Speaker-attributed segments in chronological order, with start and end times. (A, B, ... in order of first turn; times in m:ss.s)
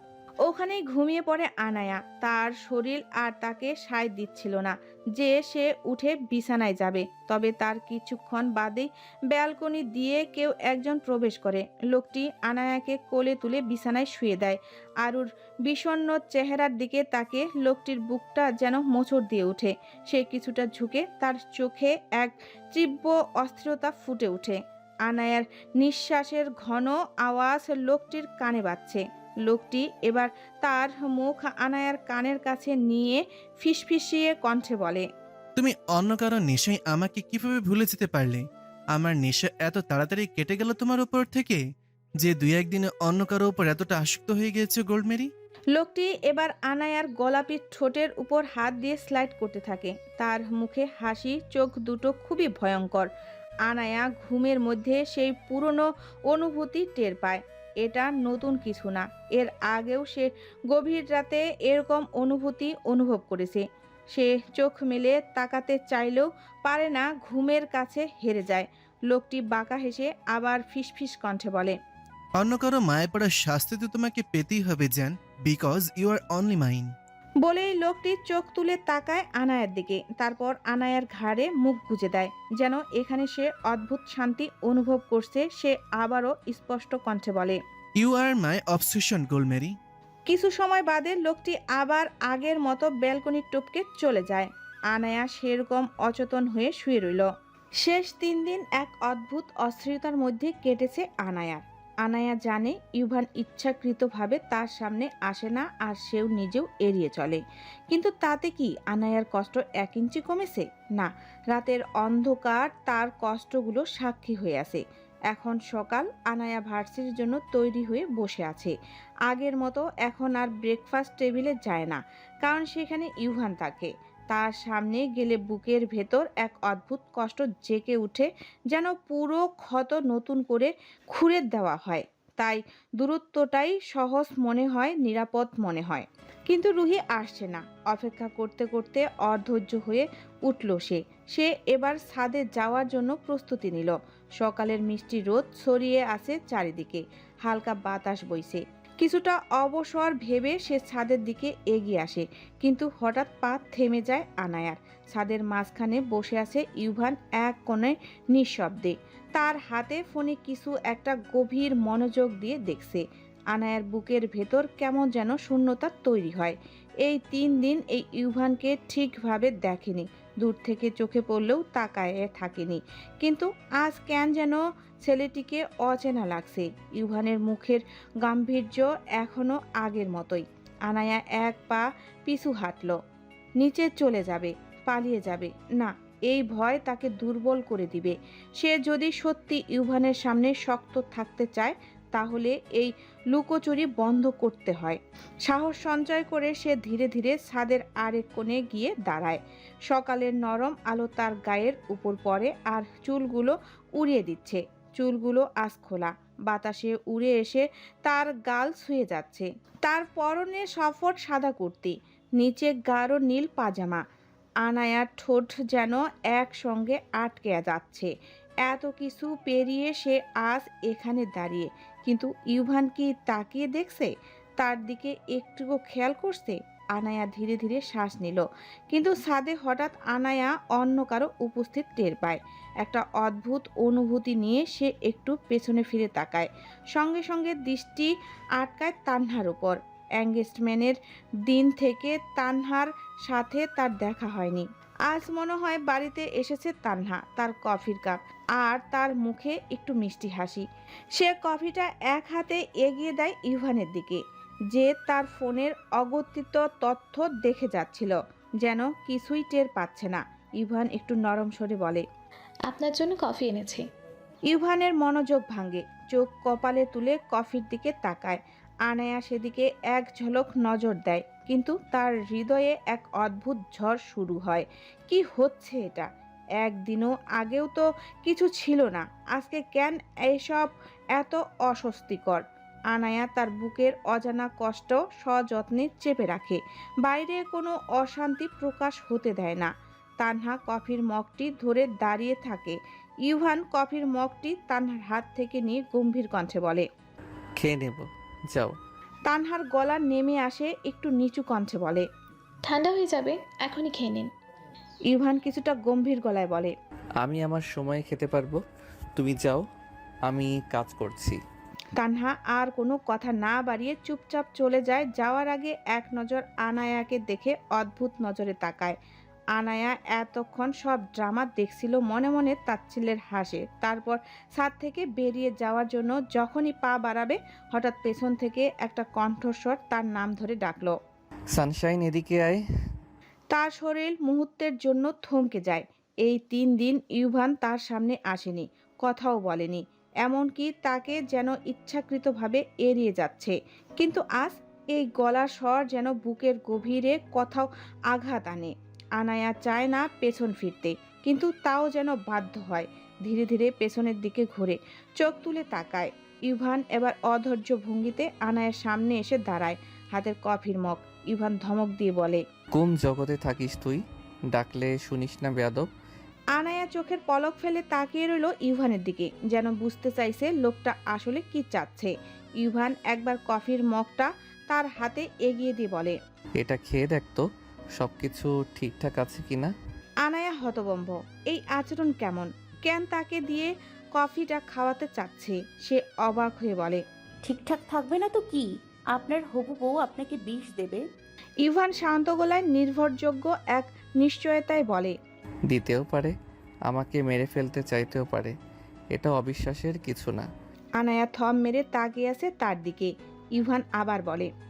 0:00.4-0:35.1 A
0:35.6-0:38.4 B
0:39.0-0:41.6 B
0:42.3-0:45.3 B
0:45.7-0:53.1 A
0:53.7-1:11.8 A
1:12.4-1:16.9 B
1:17.4-1:27.6 A
1:28.0-1:29.8 B
1:30.3-1:37.3 A
1:37.8-1:58.8 A
1:59.3-3:03.0 A
3:03.6-3:34.0 A
3:34.6-3:38.1 A
3:38.6-4:14.2 A
4:14.7-4:22.0 A
4:22.7-4:23.8 C
4:24.5-4:36.1 A
4:36.6-4:56.9 A
4:57.6-4:58.8 D
4:59.3-5:02.1 A
5:02.6-5:04.3 C
5:05.1-5:06.7 A
5:07.2-5:08.6 D
5:09.2-5:09.6 D
5:10.3-5:11.4 D
5:12.0-5:19.0 A
5:19.6-5:31.0 A
5:31.5-5:32.6 D
5:33.5-6:02.4 A
6:02.8-6:05.9 D
6:06.6-6:16.2 A
6:16.6-6:17.4 D
6:18.0-6:19.7 D
6:20.3-6:27.0 A
6:27.4-6:31.0 E
6:31.6-6:35.1 A
6:35.7-6:36.4 D
6:36.9-6:38.6 D
6:39.1-6:40.5 D
6:41.0-6:44.5 A